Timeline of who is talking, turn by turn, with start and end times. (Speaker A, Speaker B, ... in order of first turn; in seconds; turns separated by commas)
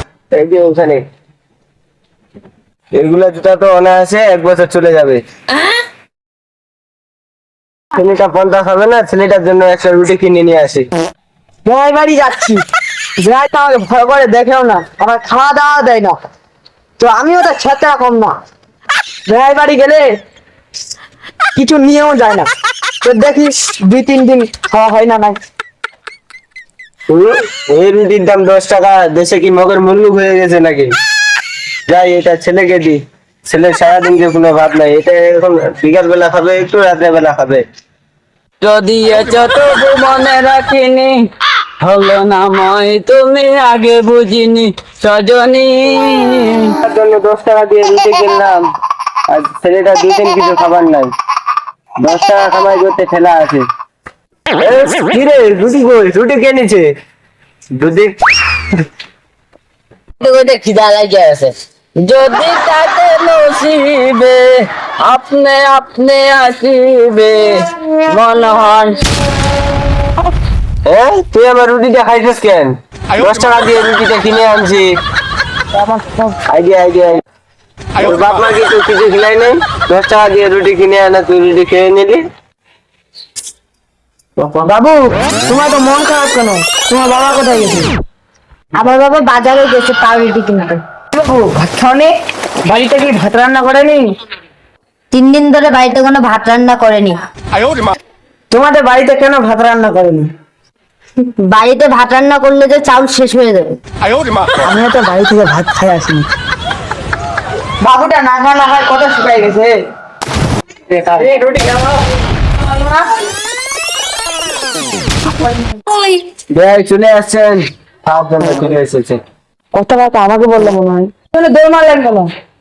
Speaker A: 0.3-1.0, Speaker A: 2.9-5.2, Speaker A: 7.9-10.9, Speaker B: 11.7-12.6, Speaker B: 13.2-16.2, Speaker B: 17.0-18.4, Speaker B: 19.3-20.1, Speaker B: 21.6-22.5, Speaker B: 23.0-25.4, Speaker A: 27.1-30.9, Speaker A: 31.9-37.6, Speaker C: 38.6-41.3, Speaker C: 41.8-46.8, Speaker A: 46.8-48.7, Speaker A: 49.3-51.1, Speaker A: 52.0-53.7, Speaker A: 54.6-56.9, Speaker A: 57.8-58.2, Speaker D: 60.2-61.3, Speaker C: 62.0-64.5, Speaker C: 65.0-67.6, Speaker D: 68.1-69.0, Speaker A: 70.9-74.9, Speaker B: 75.7-76.4, Speaker A: 76.5-77.2, Speaker A: 78.0-82.2, Speaker B: 84.4-87.9, Speaker D: 88.8-90.8, Speaker B: 91.1-94.1, Speaker D: 95.1-97.2, Speaker B: 98.5-100.3, Speaker D: 101.4-103.8, Speaker B: 104.6-106.3, Speaker B: 107.8-109.8, Speaker B: 110.9-112.0, Speaker B: 112.6-113.1, Speaker B: 115.2-115.8, Speaker A: 116.5-119.2, Speaker B: 119.7-122.3